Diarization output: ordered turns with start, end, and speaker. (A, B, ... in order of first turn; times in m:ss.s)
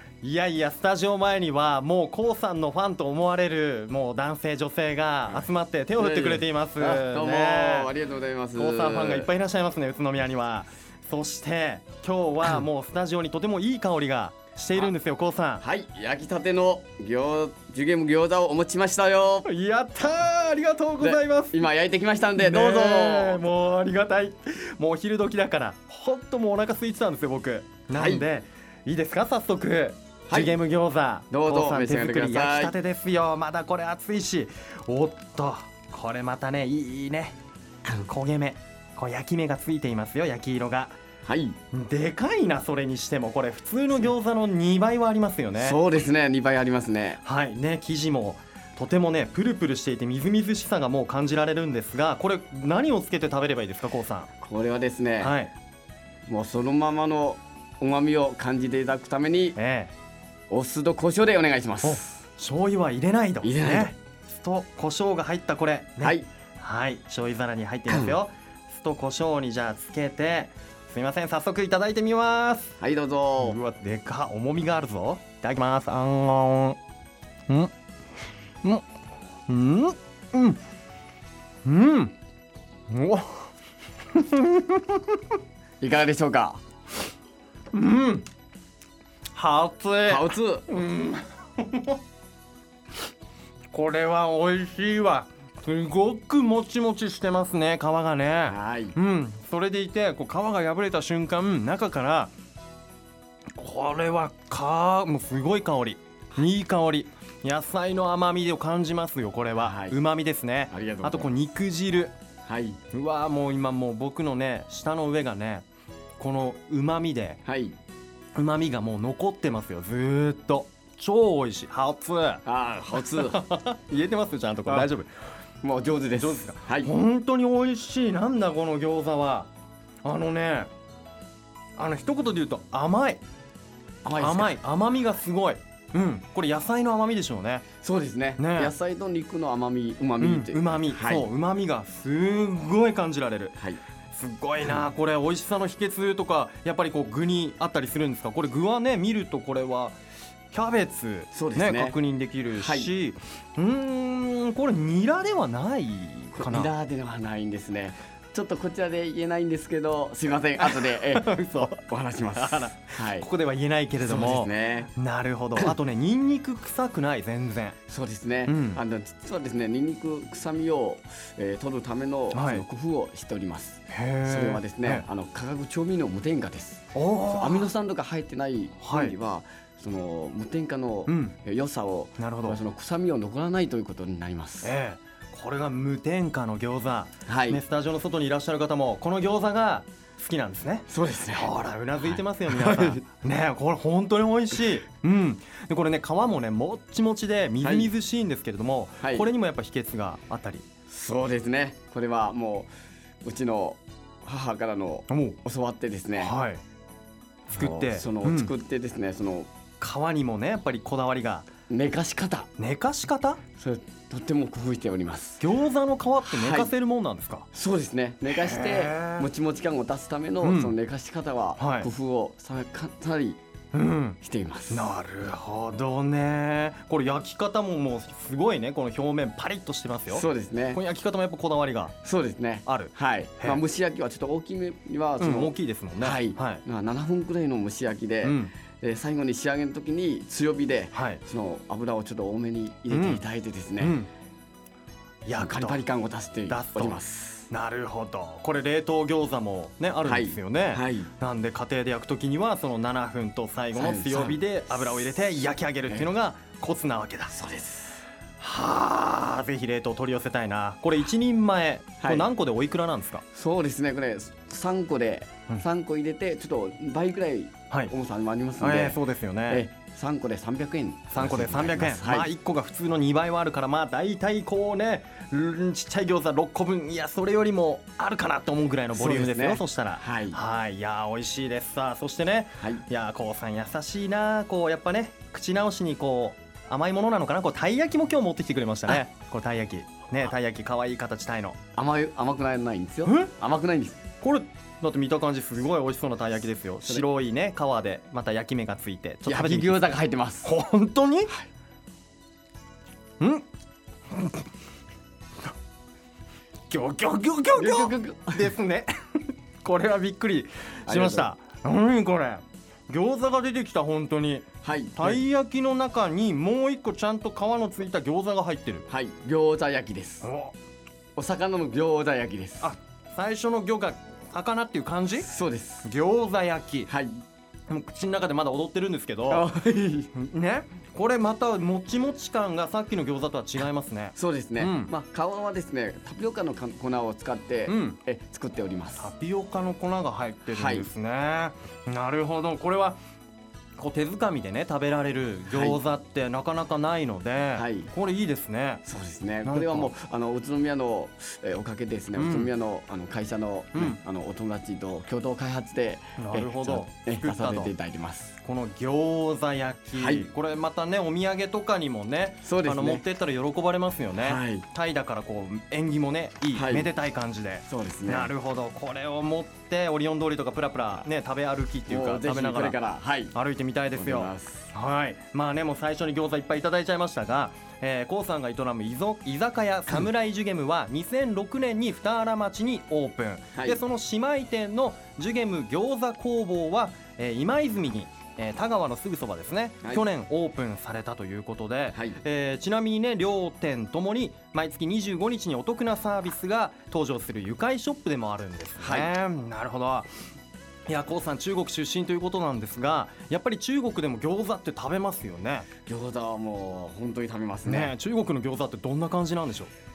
0:00.2-0:07.9 A
0:06.0-0:09.3 B
0:08.6-0:15.6 A
0:15.6-0:19.5 B
0:19.4-0:21.6 A
0:21.0-0:23.4 B
0:22.4-0:37.4 A
0:27.9-0:28.3 B
0:30.3-0:30.6 B
0:31.3-0:32.8 B
0:37.9-0:40.9 A
0:41.2-0:41.6 B
0:41.7-0:45.8 A
0:45.6-0:47.2 B
0:47.2-0:54.3 A
0:54.4-0:55.3 B
0:55.2-0:55.5 A
0:56.3-0:59.6 B
0:59.6-0:59.9 A
1:00.5-1:02.1 B
1:01.8-1:12.8 A
1:03.4-1:03.9 B
1:06.0-1:06.3 B
1:07.9-1:08.2 B
1:12.8-1:13.6 B
1:13.4-1:16.8 A
1:19.5-1:20.6 A
1:21.6-1:22.1 A
1:22.9-1:23.5 A
1:24.1-1:25.2 A
1:25.8-1:26.6 B
1:27.7-1:28.2 A
1:29.3-1:32.0 A
1:30.0-1:30.7 B
1:33.7-1:42.3 A
1:38.4-1:39.0 B
1:43.6-1:52.1 A
1:49.6-1:50.0 B
1:50.7-1:51.3 B
1:52.4-1:52.8 B
1:52.9-1:55.6 A
1:56.2-1:57.4 A
1:57.4-1:57.8 B
1:58.4-2:05.1 A
2:02.4-2:03.4 B
2:05.6-2:06.9 B
2:06.2-2:09.5 A
2:10.0-2:10.7 A
2:11.8-2:13.2 A
2:14.0-2:14.6 B
2:14.2-2:17.6 A
2:17.8-2:21.2 B
2:18.4-2:18.7 A
2:20.2-2:23.6 A
2:24.1-2:30.0 A
2:30.5-2:36.7 A
2:31.3-2:32.0 B
2:32.5-2:32.9 B
2:36.4-2:43.3 B
2:40.6-2:41.8 A
2:42.4-2:47.8 A
2:44.0-2:44.9 B
2:47.9-3:04.8 B
2:48.4-2:48.8 A
2:52.3-2:52.6 A
2:53.9-2:55.0 A
2:56.9-2:57.7 A
2:58.8-2:59.1 A
3:01.1-3:01.3 A
3:02.2-3:02.6 A
3:04.6-3:20.6 A
3:07.3-3:07.6 B
3:10.9-3:13.0 B
3:17.6-3:17.9 B
3:19.0-3:19.3 B
3:20.9-3:22.7 B
3:23.2-3:26.3 B
3:25.1-3:25.4 A
3:26.2-3:26.6 A
3:27.5-3:29.5 B
3:27.5-3:28.5 A
3:29.8-3:31.5 A
3:31.7-3:32.5 B
3:32.6-3:33.4 A
3:33.6-3:35.4 B
3:35.4-3:37.4 A
3:36.2-3:36.7 B
3:37.5-3:43.4 B
3:38.3-3:39.2 A
3:40.4-3:40.7 A
3:41.6-3:41.9 A
3:43.7-3:44.2 A
3:44.2-3:44.9 B
3:44.7-3:51.9 A
3:50.1-3:50.8 B
3:52.0-4:04.0 B
3:52.6-3:53.6 A
3:55.2-3:56.6 A
3:58.2-3:58.5 A
4:00.9-4:01.2 A
4:02.9-4:03.2 A
4:03.8-4:04.1 A
4:05.2-4:05.8 A
4:05.3-4:07.5 B
4:06.5-4:17.3 A
4:10.0-4:11.1 B
4:13.7-4:14.4 B
4:17.3-4:18.0 B
4:18.4-4:23.2 A
4:22.0-4:22.3 B
4:23.3-4:32.3 B
4:28.6-4:29.6 A
4:31.1-4:51.6 A
4:38.9-4:40.4 B
4:51.7-4:54.0 B
4:53.0-4:53.3 A
4:54.2-4:59.9 A
4:59.2-5:00.5 B
5:00.4-5:01.3 A
5:03.2-5:03.4 A
5:04.1-5:04.4 A
5:06.7-5:18.8 A
5:07.5-5:08.5 B
5:10.9-5:11.3 B
5:14.6-5:15.2 B
5:18.9-5:20.3 B
5:20.2-5:20.5 A
5:21.2-5:22.7 B
5:22.6-5:25.3 A
5:25.2-5:25.9 B
5:25.8-5:26.9 A
5:27.7-5:29.5 A
5:29.3-5:30.1 B
5:30.1-5:34.9 A
5:34.2-5:39.1 B
5:37.7-5:38.0 A
5:39.0-5:43.0 A
5:40.5-5:40.9 B
5:43.8-5:48.8 A
5:45.5-5:45.8 B
5:47.6-5:47.9 B
5:48.8-5:58.4 B
5:49.4-5:49.9 A
5:52.1-5:52.5 A
5:53.7-5:54.0 A
5:56.2-5:57.7 A
5:58.4-6:12.8 A
5:59.9-6:00.3 B
6:02.4-6:03.0 B
6:04.2-6:04.6 B
6:06.5-6:06.9 B
6:07.6-6:08.3 B
6:11.9-6:13.3 B
6:13.3-6:40.1 A
6:13.9-6:14.7 B
6:23.5-6:23.8 B
6:31.9-6:32.2 B
6:38.8-6:39.1 B
6:40.9-6:45.7 A
6:45.8-6:47.9 B
6:47.6-6:49.7 A